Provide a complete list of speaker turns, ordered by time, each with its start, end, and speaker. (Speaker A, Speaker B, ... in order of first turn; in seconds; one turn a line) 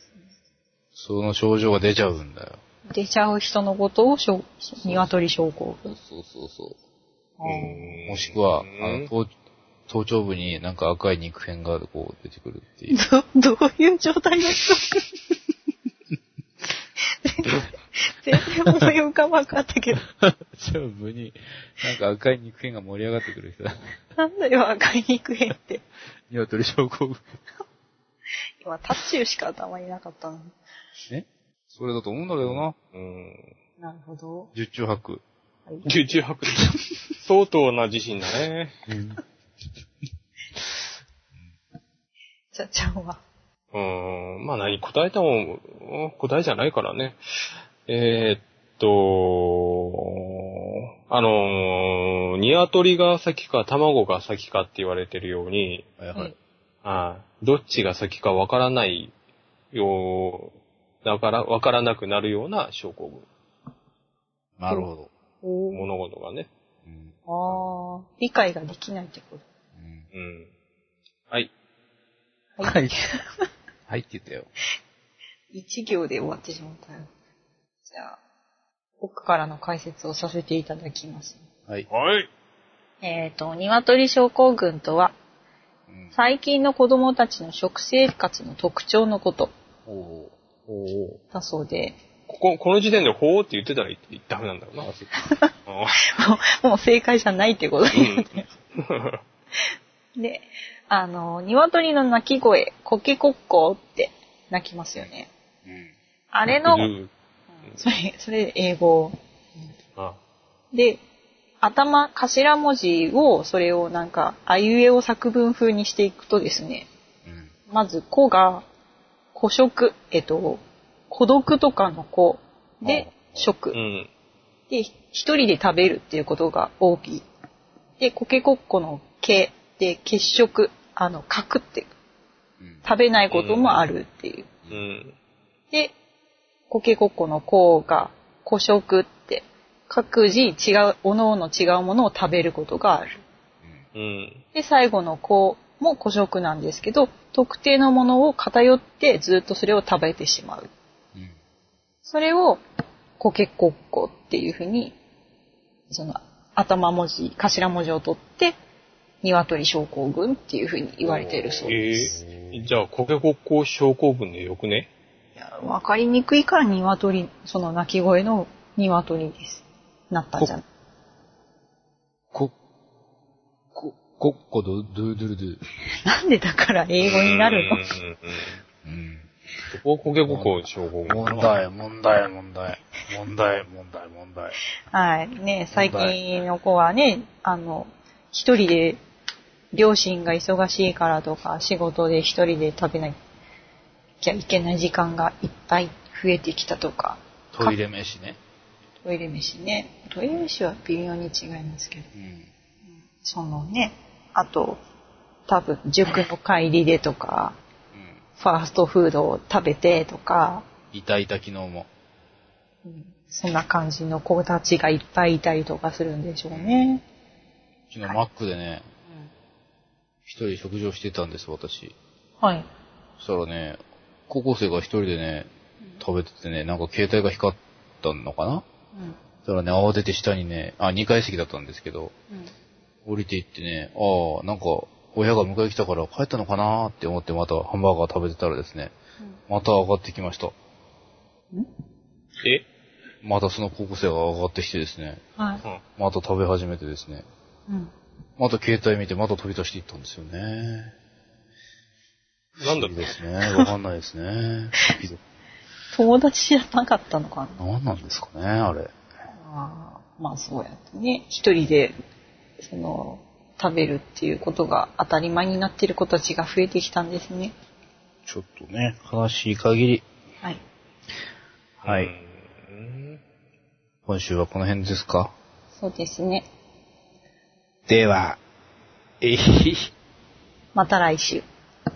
Speaker A: 0.9-2.6
Speaker B: 2.9-6.0
Speaker A: 4.8-5.1
Speaker A: 5.9-6.8
Speaker B: 7.4-8.0
Speaker C: 7.5-9.1
Speaker A: 7.5-9.3
Speaker A: 9.9-13.0
Speaker B: 12.9-15.0
Speaker B: 17.2-20.0
Speaker A: 20.2-23.9
Speaker B: 24.2-25.8
Speaker A: 26.3-27.2
Speaker B: 28.6-30.5
Speaker A: 31.1-32.7
Speaker C: 32.4-33.5
Speaker B: 33.8-34.5
Speaker A: 34.5-35.2
Speaker C: 35.8-36.7
Speaker C: 37.2-38.8
Speaker A: 38.9-39.2
Speaker B: 42.5-43.2
Speaker C: 43.7-47.2
Speaker C: 47.9-55.9
Speaker A: 56.0-56.3
Speaker C: 56.8-59.1
Speaker C: 59.7-63.3
Speaker A: 64.6-65.1
Speaker B: 65.4-65.9
Speaker C: 65.7-66.5
Speaker A: 66.8-67.1
Speaker B: 67.3-69.5
Speaker A: 69.8-70.0
Speaker C: 70.1-70.5
Speaker B: 72.6-73.2
Speaker A: 72.6-72.9
Speaker A: 73.9-74.5
Speaker B: 75.5-77.1
Speaker B: 77.9-78.2
Speaker B: 79.0-81.4
Speaker C: 81.9-82.3
Speaker B: 83.0-85.1
Speaker A: 85.9-86.2
Speaker B: 86.1-89.5
Speaker A: 89.9-90.3
Speaker C: 90.7-91.2
Speaker B: 91.3-92.0
Speaker C: 92.3-94.9
Speaker A: 94.8-95.1
Speaker B: 95.2-95.5
Speaker C: 95.7-96.2
Speaker B: 96.1-98.4
Speaker C: 97.9-99.2
Speaker B: 100.2-105.3
Speaker A: 105.7-105.9
Speaker B: 106.3-106.9
Speaker C: 106.5-107.1
Speaker B: 107.6-109.7
Speaker B: 110.7-111.0
Speaker B: 111.6-116.9
Speaker B: 117.7-118.7
Speaker B: 119.3-123.8
Speaker A: 122.8-123.5
Speaker C: 123.7-124.1
Speaker B: 124.7-127.2
Speaker B: 128.0-131.9
Speaker A: 132.6-132.8
Speaker B: 132.8-134.5
Speaker C: 133.3-133.8
Speaker C: 134.7-135.2
Speaker B: 136.7-143.2
Speaker C: 143.9-144.4
Speaker B: 144.5-150.7
Speaker B: 152.0-152.6
Speaker B: 153.2-155.0
Speaker B: 155.9-158.6
Speaker B: 159.2-161.8
Speaker C: 161.0-164.9
Speaker A: 161.9-162.7
Speaker B: 165.3-170.6
Speaker A: 173.7-175.6
Speaker B: 176.0-177.8
Speaker C: 177.0-178.6
Speaker A: 178.8-179.3
Speaker C: 179.7-181.6
Speaker A: 180.2-184.6
Speaker B: 184.9-189.0
Speaker A: 185.7-186.2
Speaker B: 189.7-193.2
Speaker B: 194.2-197.8
Speaker A: 197.5-198.4
Speaker B: 199.0-202.1
Speaker A: 202.1-202.5
Speaker B: 203.2-204.8
Speaker B: 205.5-207.6
Speaker B: 208.4-210.6
Speaker A: 210.9-211.9
Speaker B: 212.8-217.0
Speaker A: 216.5-217.0
Speaker A: 217.9-218.8
Speaker B: 219.1-219.3
Speaker A: 220.2-221.9
Speaker B: 222.4-222.7
Speaker A: 223.2-225.5
Speaker A: 226.0-228.6
Speaker A: 229.4-232.1
Speaker A: 233.0-238.9
Speaker A: 239.5-240.5
Speaker A: 243.2-245.2
Speaker B: 245.4-245.6
Speaker A: 246.0-247.2
Speaker A: 248.4-250.9
Speaker A: 252.6-255.2
Speaker C: 252.6-253.1
Speaker B: 255.9-257.6
Speaker A: 257.6-258.9
Speaker B: 259.4-261.9
Speaker B: 262.6-267.5
Speaker A: 268.2-270.0
Speaker A: 271.8-272.1
Speaker C: 271.8-273.2
Speaker A: 274.1-275.3
Speaker B: 275.7-276.5
Speaker A: 277.9-278.4
Speaker A: 279.2-279.9
Speaker B: 280.7-281.4